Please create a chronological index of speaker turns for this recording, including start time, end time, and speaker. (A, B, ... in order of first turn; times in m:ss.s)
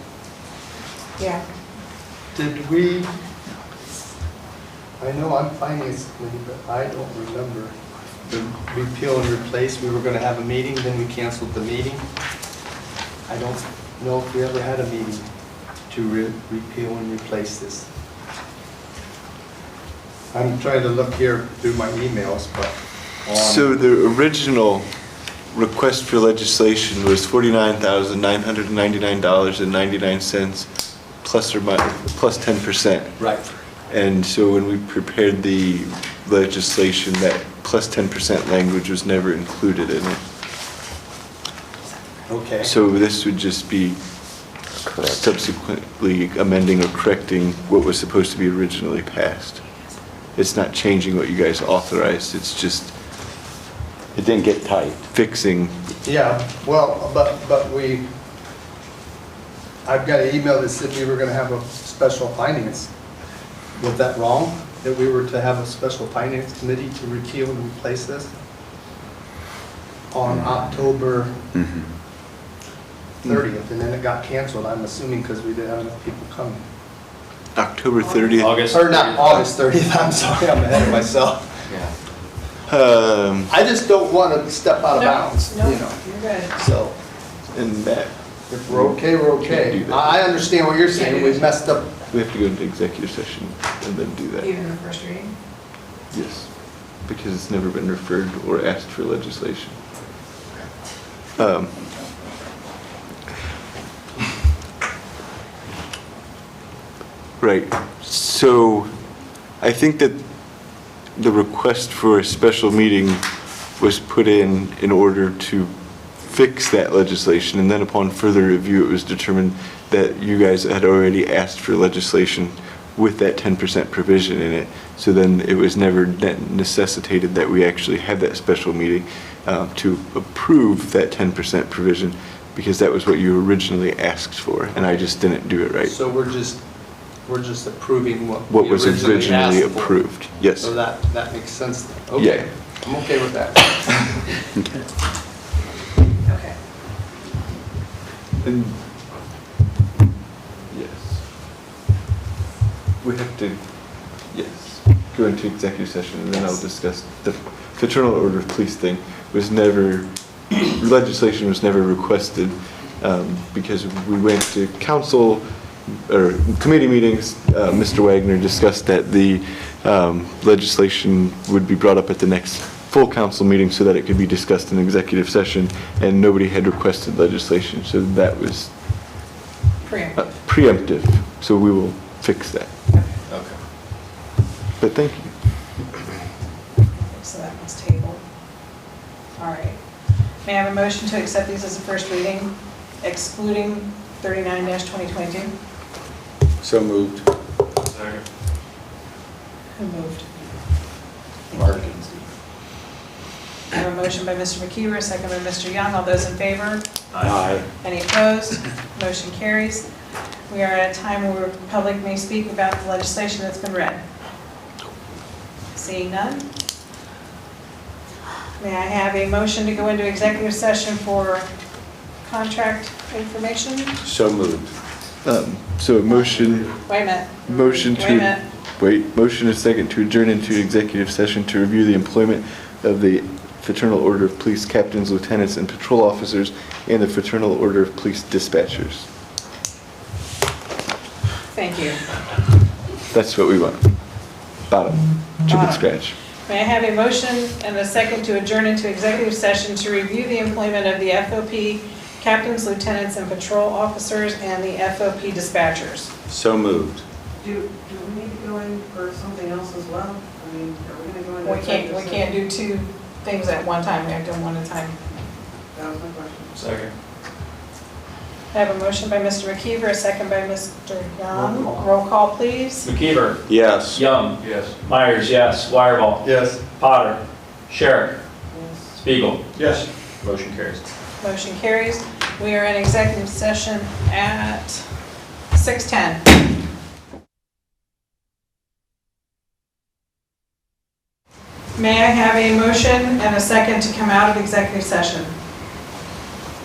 0:02.3-0:03.1 A
0:05.0-0:12.0 A
0:13.3-0:15.3 A
0:15.9-0:17.9 A
0:20.3-0:23.7 A
0:23.4-0:24.9 B
0:25.5-0:40.2 B
0:33.2-0:33.5 A
0:42.3-0:42.7 A
0:42.6-0:44.0 B
0:44.9-0:45.2 C
0:45.0-0:49.6 B
0:50.4-0:53.0 B
0:54.1-0:55.1 C
0:55.1-0:55.8 B
0:56.0-0:58.1 A
0:59.8-1:02.9 A
1:03.8-1:08.3 A
1:10.1-1:11.5 A
1:11.6-1:11.9 C
1:13.2-1:16.6 A
1:17.6-1:18.7 B
1:18.4-1:19.4 D
1:18.7-1:21.9 A
1:22.7-1:23.5 B
1:23.5-1:27.0 A
1:25.0-1:26.5 E
1:27.5-1:30.4 B
1:28.5-1:31.9 A
1:31.0-1:31.4 E
1:32.1-1:34.5 B
1:34.4-1:35.3 E
1:36.1-1:39.8 B
1:41.4-1:42.2 B
1:47.4-1:48.9 B
1:49.6-1:53.2 B
1:53.8-2:16.0 B
2:15.8-2:24.4 A
2:18.5-2:20.8 B
2:22.2-2:22.6 B
2:26.2-2:26.6 E
2:28.4-2:28.9 B
2:30.7-2:31.3 B
2:33.0-2:59.0 B
2:59.8-3:00.3 E
3:00.2-3:02.7 B
3:04.8-3:05.7 B
3:06.9-3:08.2 E
3:09.4-3:09.8 E
3:10.4-3:15.5 E
3:16.6-3:17.2 C
3:17.9-3:18.2 D
3:19.8-3:20.3 E
3:21.5-3:22.1 E
3:21.6-3:22.1 C
3:23.7-3:26.8 E
3:27.1-3:27.7 C
3:27.8-3:29.9 E
3:30.5-3:34.0 E
3:35.7-3:36.5 E
3:38.6-3:41.5 E
3:42.2-3:44.0 E
3:44.0-3:44.7 C
3:45.2-3:59.1 B
3:46.8-3:48.4 E
4:01.5-4:02.0 E
4:03.1-4:03.9 B
4:04.6-4:06.2 B
4:05.5-4:05.9 E
4:06.5-4:16.1 E
4:16.3-4:17.0 C
4:17.4-4:21.4 F
4:21.4-4:25.0 E
4:26.6-4:26.9 D
4:28.5-4:32.9 E
4:32.8-4:38.2 D
4:33.5-4:34.5 C
4:36.2-4:36.6 A
4:39.0-4:40.8 D
4:41.2-4:44.9 E
4:45.5-4:46.2 E
4:51.8-4:55.3 E